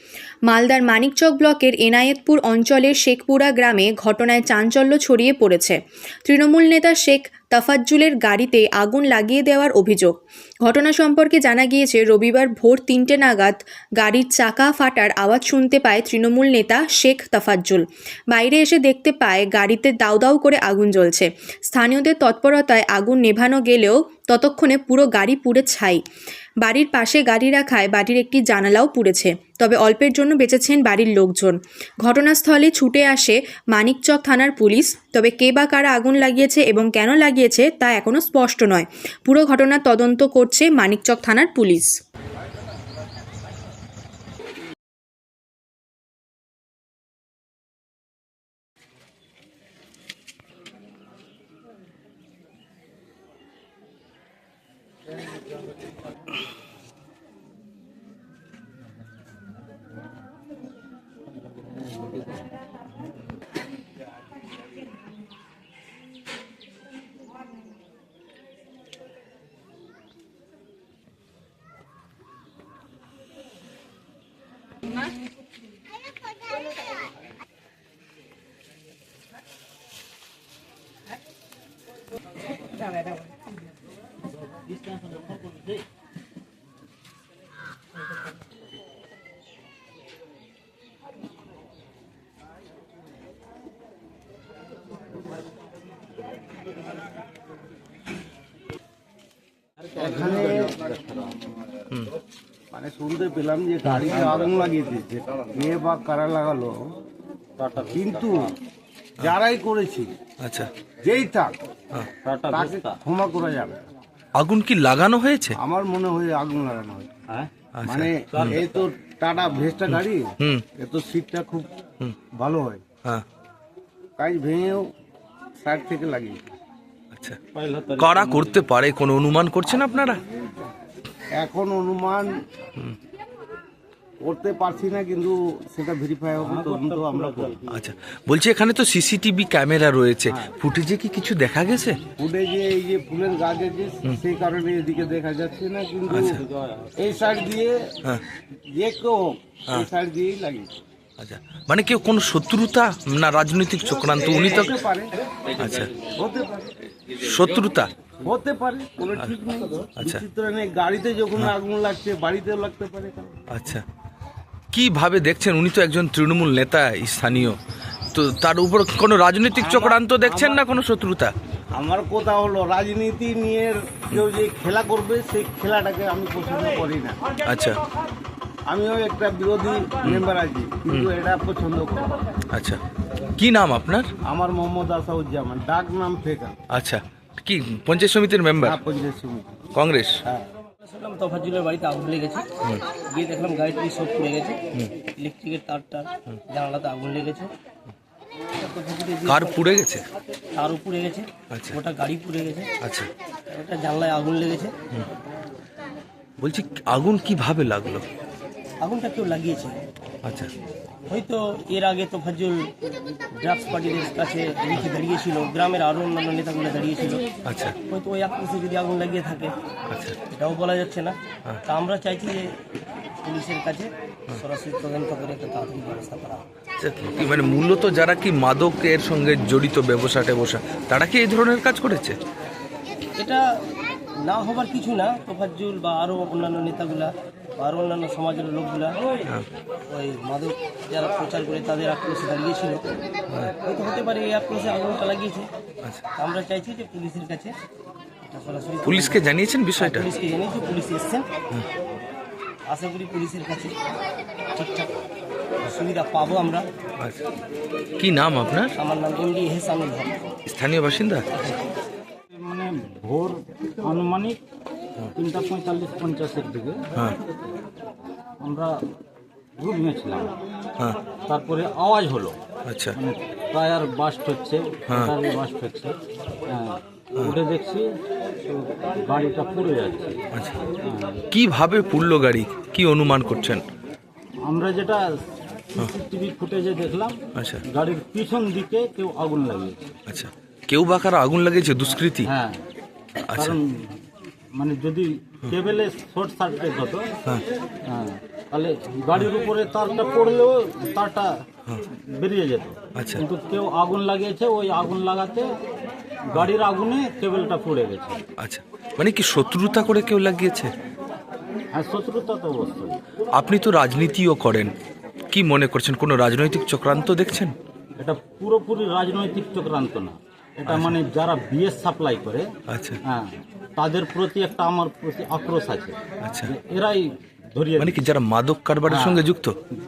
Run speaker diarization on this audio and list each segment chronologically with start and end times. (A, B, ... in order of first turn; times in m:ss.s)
0:00.5-0:26.0 A
0:26.6-0:42.0 A
1:39.8-1:41.4 B
1:40.0-1:40.8 C
1:42.7-1:47.0 C
1:43.9-1:44.1 D
1:44.0-1:44.5 B
1:47.6-1:48.6 B
1:47.9-1:48.5 C
1:49.2-1:50.1 C
1:50.4-1:50.7 D
1:51.0-1:51.5 C
1:52.2-1:53.0 B
1:52.5-1:53.8 C
1:54.4-1:55.6 D
1:55.6-1:57.1 C
1:57.7-1:58.6 D
1:57.9-2:01.7 C
1:58.3-1:58.8 B
1:59.9-2:00.6 D
2:02.3-2:02.8 C
2:04.2-2:04.9 C
2:05.6-2:06.4 C
2:07.1-2:07.4 D
2:07.5-2:08.6 B
2:08.0-2:10.2 D
2:11.4-2:12.4 C
2:14.2-2:17.6 C
2:16.4-2:17.7 B
2:17.7-2:22.0 D
2:22.2-2:26.4 C
2:26.1-2:26.4 D
2:26.2-2:27.1 B
2:27.0-2:27.8 C
2:28.7-2:30.7 C
2:31.2-2:34.8 D
2:34.2-2:35.1 C
2:35.6-2:35.9 D
2:36.2-2:36.7 C
2:37.1-2:37.9 D
2:38.2-2:43.3 C
2:40.0-2:40.2 D
2:43.5-2:43.8 D
2:44.7-2:47.6 D
2:48.1-2:51.3 D
2:49.6-2:50.6 C
2:51.8-2:57.2 C
2:57.4-2:57.8 D
2:58.7-3:02.2 C
3:02.5-3:02.8 D
3:03.4-3:04.1 D
3:04.2-3:06.6 C
3:06.7-3:08.8 D
3:08.6-3:09.7 C
3:09.7-3:10.2 D
3:10.8-3:12.5 E
3:13.1-3:14.6 E
3:15.2-3:17.5 E
3:18.6-3:19.6 E
3:19.3-3:20.1 D
3:20.5-3:22.7 E
3:21.5-3:21.8 D
3:22.8-3:23.1 D
3:23.5-3:24.8 E
3:26.4-3:28.1 D
3:28.8-3:29.8 E
3:30.2-3:30.5 D
3:31.1-3:32.7 E
3:33.4-3:37.3 E
3:37.4-3:37.8 D
3:37.8-3:39.6 E
3:39.9-3:40.2 D
3:40.3-3:42.6 E
3:43.2-3:46.5 E
3:46.8-3:52.2 D
3:53.2-3:53.6 E
3:54.2-3:59.1 E
3:59.9-4:03.0 E
4:03.6-4:05.5 E
4:06.2-4:07.6 E
4:08.3-4:09.2 E
4:08.8-4:10.1 D
4:09.8-4:11.3 E
4:12.7-4:13.8 E
4:14.5-4:15.0 E
4:15.6-4:16.7 E
4:18.0-4:18.7 D
4:18.8-4:20.2 E
4:20.5-4:21.3 D
4:22.3-4:24.4 B
4:25.2-4:26.8 B
4:28.4-4:28.8 B
4:29.6-4:30.4 B
4:31.3-4:32.4 B
4:32.6-4:33.0 D
4:33.0-4:36.0 B
4:36.5-4:37.9 B
4:38.4-4:40.2 B
4:40.3-4:40.6 D
4:40.8-4:41.2 B
4:41.3-4:43.6 D
4:44.4-4:45.0 B
4:45.7-4:49.9 B
4:47.4-4:47.6 D
4:50.1-4:52.3 D
4:52.2-4:52.6 B
4:53.2-4:53.6 D
4:53.4-4:54.0 B
4:54.6-4:57.1 B
4:57.9-5:01.3 B
5:01.9-5:05.5 B
5:03.0-5:03.2 D
5:06.3-5:08.2 B
5:08.4-5:10.7 D
5:11.7-5:13.0 B
5:13.3-5:14.7 D
5:15.3-5:17.6 D
5:18.0-5:22.5 B
5:20.7-5:21.0 D
5:22.7-5:23.0 D
5:23.0-5:28.0 B
5:26.2-5:26.5 D
5:27.8-5:29.6 D
5:28.9-5:29.3 B